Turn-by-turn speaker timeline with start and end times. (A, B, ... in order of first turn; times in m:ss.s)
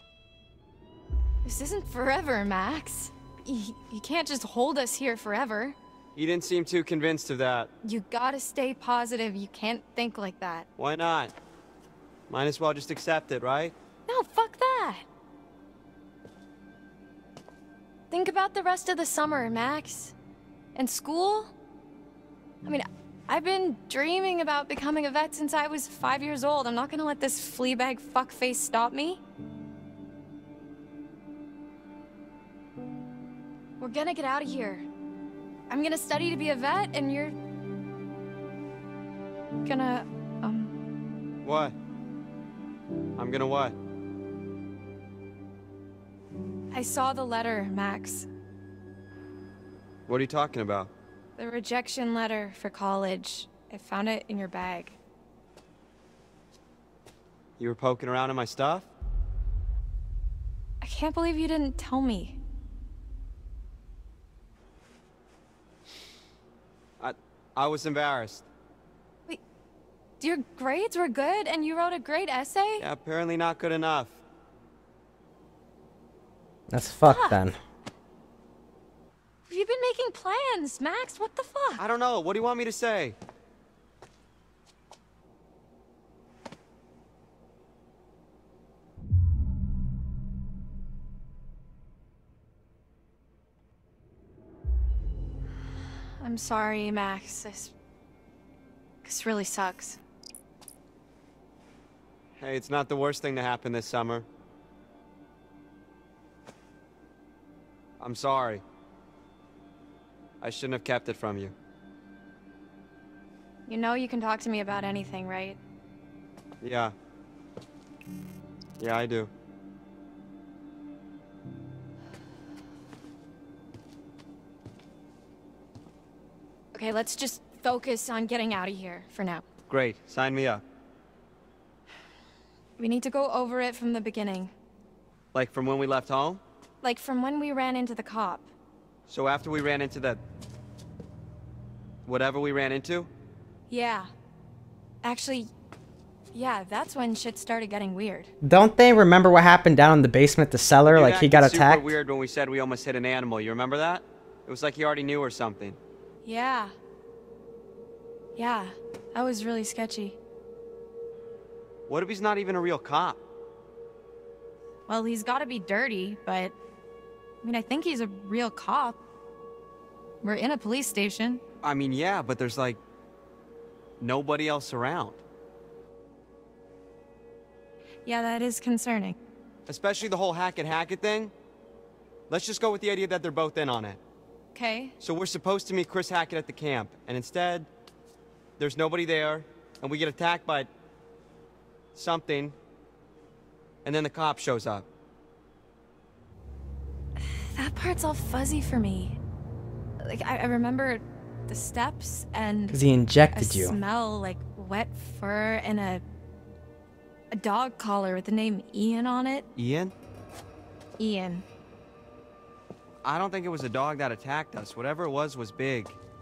0:01.4-0:05.8 A
0:06.1-0:07.7 B
0:07.8-0:10.7 A
0:10.8-0:11.3 B
0:12.3-0:13.8 B
0:14.1-0:15.0 A
0:18.1-0:20.1 A
0:20.8-0:21.5 A
0:22.6-0:29.2 A
0:33.8-0:34.9 A
0:35.7-0:37.4 A
0:39.6-0:40.7 A
0:41.4-0:41.8 B
0:43.2-0:43.8 B
0:46.7-0:48.3 A
0:50.1-0:50.9 B
0:51.4-0:55.0 A
0:57.6-0:58.9 B
1:00.8-1:02.4 A
1:07.0-1:08.5 B
1:10.2-1:12.8 A
1:12.8-1:14.2 B
1:16.7-1:17.6 C
1:17.0-1:17.4 A
1:19.5-1:21.8 A
1:21.8-1:23.2 B
1:36.2-1:37.7 A
1:39.0-1:40.0 A
1:42.4-1:44.3 B
1:48.0-1:48.6 B
1:50.4-1:51.5 B
1:53.7-1:55.6 A
1:56.6-1:56.9 B
1:58.8-1:59.3 B
2:06.7-2:09.4 A
2:09.7-2:10.6 B
2:12.8-2:14.5 A
2:15.3-2:16.4 B
2:16.8-2:18.5 A
2:19.1-2:20.2 B
2:22.0-2:23.1 B
2:23.7-2:24.1 A
2:25.0-2:25.5 A
2:26.3-2:28.3 A
2:28.4-2:32.0 C
2:30.9-2:35.8 B
2:36.2-2:36.7 A
2:38.4-2:40.2 A
2:41.9-2:43.2 B
2:44.9-2:46.6 A
2:47.4-2:49.0 A
2:50.2-2:51.4 A
2:51.6-2:52.8 B
2:54.0-2:55.2 B
2:58.0-2:59.2 A
2:59.7-3:01.3 B
3:02.3-3:04.0 B
3:04.5-3:05.0 A
3:05.0-3:07.7 B
3:08.6-3:10.7 B
3:11.9-3:12.6 B
3:13.8-3:14.9 B
3:17.2-3:19.2 A
3:20.0-3:22.8 A
3:22.7-3:23.8 C
3:23.3-3:26.0 A
3:27.3-3:29.5 A
3:29.6-3:29.9 B
3:31.0-3:31.4 A
3:33.0-3:36.0 B